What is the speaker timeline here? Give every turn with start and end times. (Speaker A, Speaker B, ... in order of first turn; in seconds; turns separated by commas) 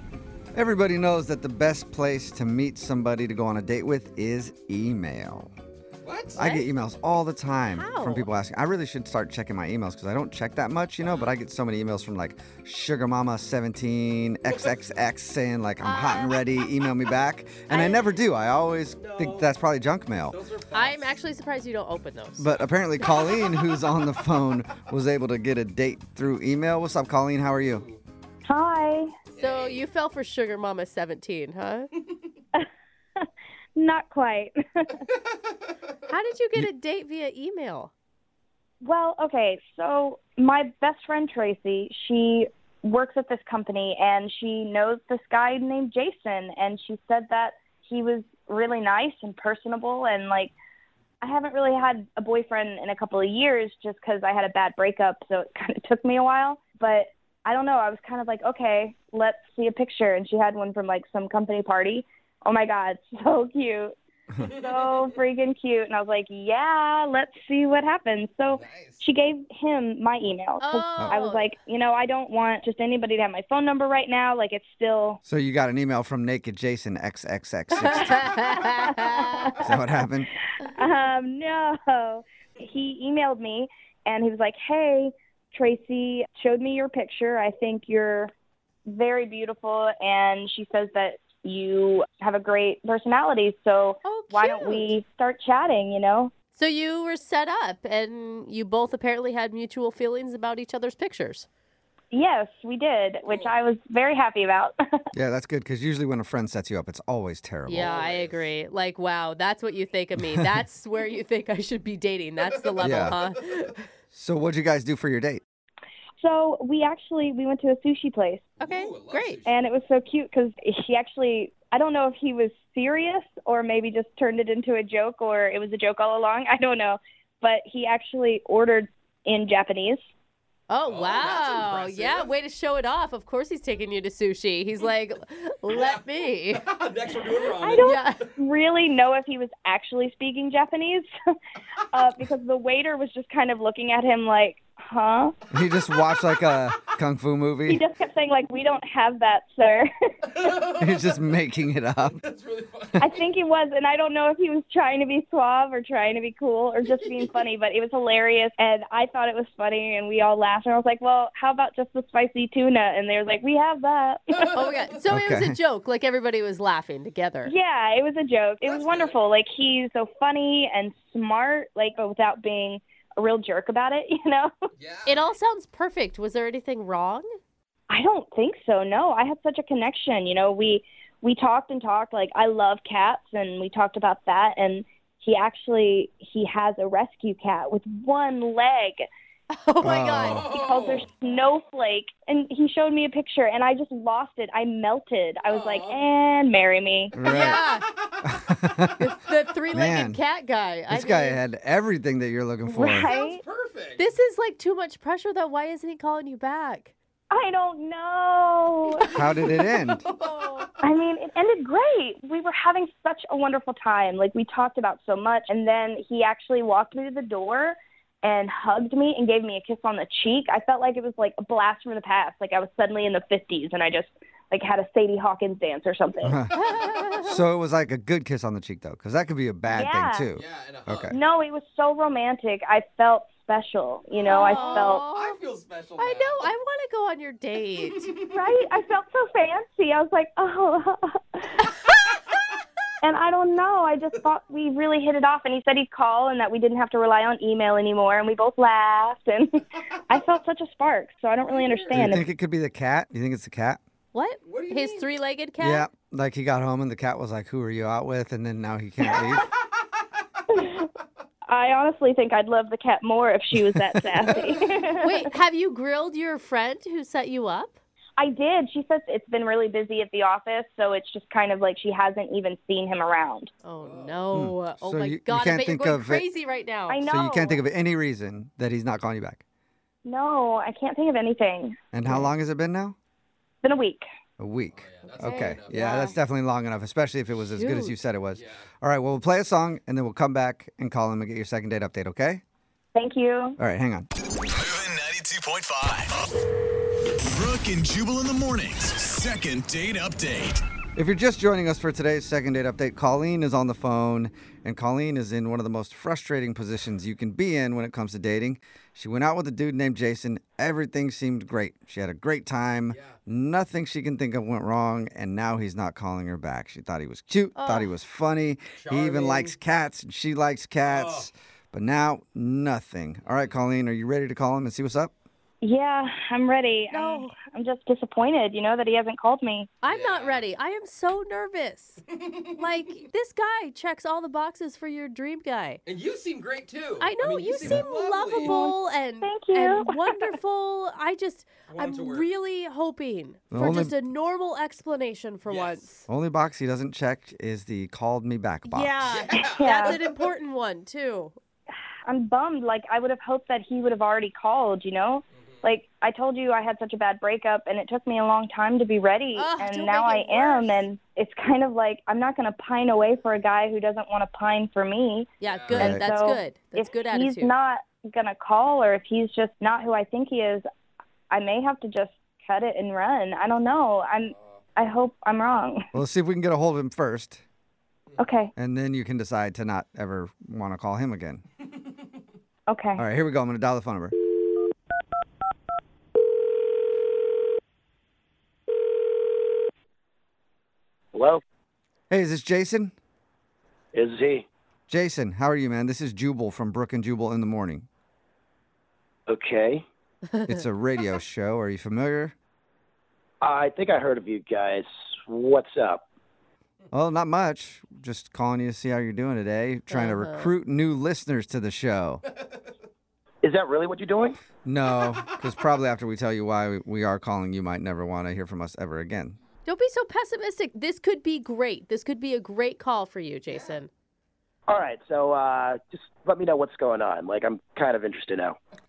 Speaker A: 0.5-5.5, Speaker B: 6.0-6.4, Speaker A: 6.4-20.4, Speaker C: 6.4-6.7, Speaker C: 7.7-8.3, Speaker B: 11.0-11.3, Speaker B: 14.4-14.9, Speaker C: 15.8-16.4, Speaker C: 17.7-18.1, Speaker B: 19.0-19.5, Speaker B: 20.3-21.1, Speaker C: 20.7-22.5, Speaker A: 22.4-27.9, Speaker B: 27.7-28.0, Speaker D: 28.5-29.1, Speaker B: 29.3-29.9, Speaker C: 29.4-31.9, Speaker D: 33.8-35.1, Speaker B: 35.1-35.5, Speaker C: 36.1-37.9, Speaker D: 38.8-50.5, Speaker D: 51.2-75.2, Speaker B: 68.5-69.0, Speaker C: 70.6-71.5, Speaker A: 75.3-78.3, Speaker C: 77.8-79.5, Speaker D: 78.9-79.8, Speaker A: 79.6-80.3, Speaker D: 80.6-88.3, Speaker D: 88.9-96.3, Speaker C: 94.0-94.9, Speaker C: 96.5-101.5, Speaker D: 102.1-104.8, Speaker B: 103.3-103.5, Speaker A: 105.1-107.9, Speaker C: 107.7-113.9, Speaker B: 107.7-108.5, Speaker B: 112.4-113.4, Speaker A: 112.8-113.2, Speaker A: 114.1-115.4, Speaker D: 116.2-118.5, Speaker B: 118.6-119.6, Speaker C: 118.6-119.4, Speaker D: 119.5-130.0, Speaker C: 130.7-136.7, Speaker B: 130.8-132.3, Speaker B: 135.7-138.3, Speaker D: 137.4-141.1, Speaker C: 137.8-138.2, Speaker D: 141.9-145.3, Speaker A: 145.5-147.8, Speaker D: 147.7-150.7, Speaker B: 150.3-151.2, Speaker A: 150.8-152.2, Speaker B: 152.1-153.3, Speaker D: 153.0-164.6, Speaker C: 164.5-167.5, Speaker A: 165.1-165.6, Speaker D: 167.4-174.5, Speaker B: 168.6-169.2, Speaker B: 174.8-175.2, Speaker C: 175.1-177.3, Speaker D: 177.9-189.1, Speaker C: 189.5-190.4, Speaker A: 189.8-190.5, Speaker D: 190.3-197.2, Speaker B: 190.4-191.1, Speaker B: 195.4-196.0, Speaker A: 197.1-197.6, Speaker C: 197.2-197.9, Speaker B: 197.4-198.2, Speaker A: 198.2-199.0, Speaker C: 199.0-201.4, Speaker A: 199.7-200.2, Speaker A: 200.9-203.1, Speaker D: 202.7-203.4, Speaker B: 203.0-204.1, Speaker C: 204.0-206.9, Speaker D: 207.3-209.1, Speaker B: 209.0-210.7, Speaker A: 209.1-210.0, Speaker C: 210.2-210.7, Speaker D: 210.8-226.4, Speaker A: 226.2-226.5, Speaker C: 226.5-227.4, Speaker A: 227.2-231.2, Speaker D: 229.7-230.3, Speaker B: 230.3-231.1, Speaker D: 231.1-235.0, Speaker B: 234.2-236.5, Speaker C: 234.3-235.4, Speaker C: 236.0-238.1, Speaker B: 237.9-238.4, Speaker D: 238.3-241.7, Speaker D: 243.0-252.3, Speaker B: 251.4-252.1, Speaker A: 251.9-253.8, Speaker C: 254.1-255.9, Speaker B: 254.4-255.1, Speaker A: 255.6-259.5, Speaker D: 259.0-259.4, Speaker D: 260.5-260.9, Speaker D: 261.5-265.3, Speaker C: 265.0-267.7, Speaker D: 268.2-273.5, Speaker C: 273.6-277.0, Speaker B: 273.8-274.3, Speaker A: 274.3-276.2, Speaker D: 276.9-277.6, Speaker A: 277.1-279.4, Speaker D: 280.1-281.8, Speaker A: 281.9-283.0, Speaker C: 282.1-282.3, Speaker D: 283.6-284.0, Speaker A: 284.4-292.4, Speaker B: 284.7-286.0, Speaker C: 285.1-286.2, Speaker C: 287.6-287.9, Speaker B: 288.3-288.7, Speaker D: 292.9-293.6, Speaker A: 293.6-294.1, Speaker E: 294.5-296.2, Speaker E: 297.3-300.6, Speaker A: 301.0-325.1, Speaker B: 312.9-313.2, Speaker C: 317.6-317.9, Speaker B: 318.7-319.6, Speaker B: 320.8-321.3, Speaker B: 323.2-323.6, Speaker D: 325.6-329.7, Speaker C: 326.9-327.3, Speaker C: 329.8-332.0, Speaker B: 329.9-330.4, Speaker B: 332.1-332.6, Speaker C: 332.6-335.8, Speaker B: 335.9-338.6, Speaker C: 337.0-346.1, Speaker D: 338.4-340.3, Speaker B: 341.7-342.3, Speaker A: 343.5-343.9, Speaker B: 345.5-345.9, Speaker A: 346.1-349.0, Speaker C: 348.7-351.4, Speaker B: 349.0-350.3, Speaker D: 349.3-350.0, Speaker D: 352.1-370.6, Speaker B: 355.4-355.6, Speaker C: 359.4-360.9, Speaker C: 365.4-367.5, Speaker B: 365.4-365.9, Speaker A: 365.7-366.1, Speaker D: 371.3-375.9, Speaker A: 375.9-377.4, Speaker D: 378.2-378.5, Speaker A: 378.6-381.4, Speaker D: 382.7-383.0, Speaker A: 383.0-384.1, Speaker F: 391.1-391.4, Speaker A: 392.1-392.9, Speaker F: 393.9-394.5, Speaker A: 394.9-397.9, Speaker F: 399.3-399.8, Speaker C: 400.3-400.6, Speaker A: 400.5-402.3, Speaker F: 403.4-406.0, Speaker A: 406.9-412.2, Speaker C: 409.9-410.5, Speaker B: 412.3-412.6, Speaker F: 413.4-414.4, Speaker A: 414.6-419.4, Speaker B: 414.9-415.3, Speaker C: 419.6-423.9, Speaker F: 424.7-428.6